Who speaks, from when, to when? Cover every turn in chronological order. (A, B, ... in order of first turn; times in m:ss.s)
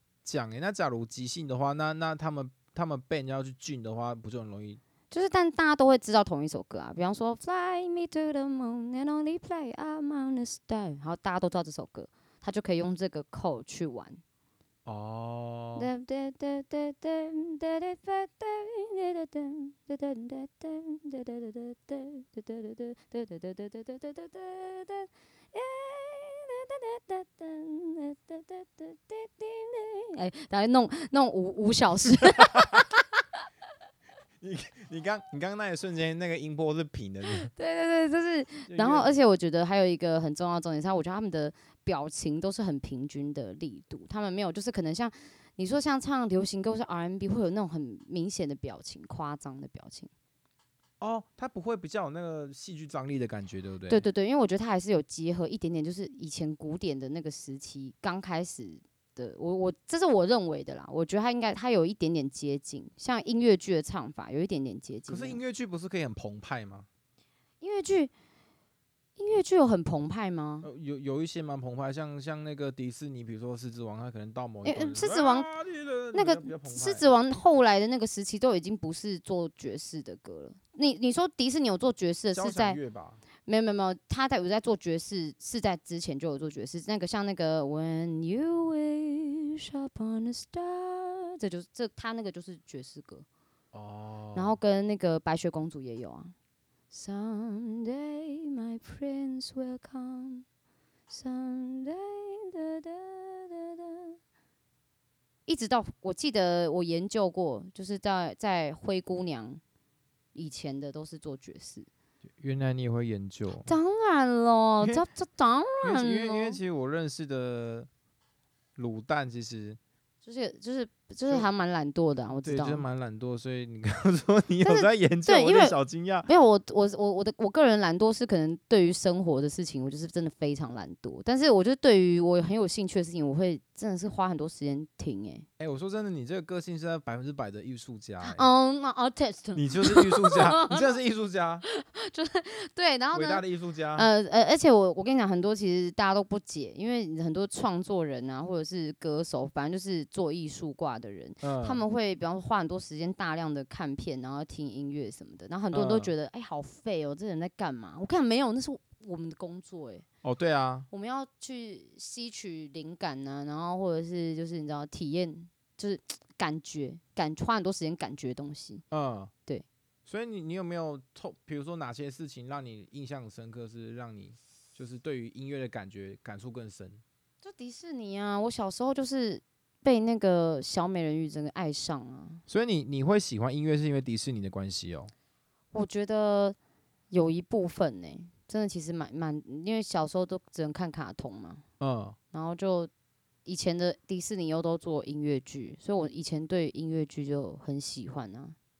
0:00.2-0:04.8 A
0:05.1-0:14.2 B
0:14.8-0:15.9 A
0:15.8-0:33.0 B
0:34.4-0:37.5 A
0:37.4-0:50.1 B
0:38.7-0:39.2 A
0:51.0-0:54.0 A
0:53.9-1:05.4 B
1:05.1-1:06.9 A
1:07.6-1:08.1 B
1:09.2-1:10.7 B
1:10.6-1:17.1 A
1:14.6-1:15.5 B
1:16.1-1:22.8 B
1:22.3-1:23.2 A
1:23.4-1:33.2 B
1:33.7-1:34.6 A
1:34.3-1:36.3 B
1:36.9-1:40.4 B
1:41.1-1:44.2 B
1:45.4-1:49.6 B
1:50.3-1:51.9 B
1:52.3-1:53.7 A
1:53.5-1:56.6 B
1:55.8-1:57.9 A
1:58.8-1:59.8 A
2:00.2-2:02.8 B
2:02.4-2:06.3 A
2:04.6-2:15.4 B
2:15.6-2:18.5 A
2:18.2-2:20.9 B
2:19.5-2:21.6 A
2:21.7-2:23.4 B
2:23.1-2:24.1 A
2:23.9-2:40.0 B
2:31.4-2:31.8 A
2:35.7-2:36.1 A
2:40.2-2:40.9 A
2:40.9-2:48.8 B
2:48.9-2:49.3 A
2:50.0-2:57.0 A
2:57.4-3:02.4 B
3:02.5-3:05.1 A
3:05.7-3:06.6 B
3:07.1-3:11.6 B
3:11.8-3:12.2 A
3:12.3-3:12.9 B
3:13.4-3:18.6 B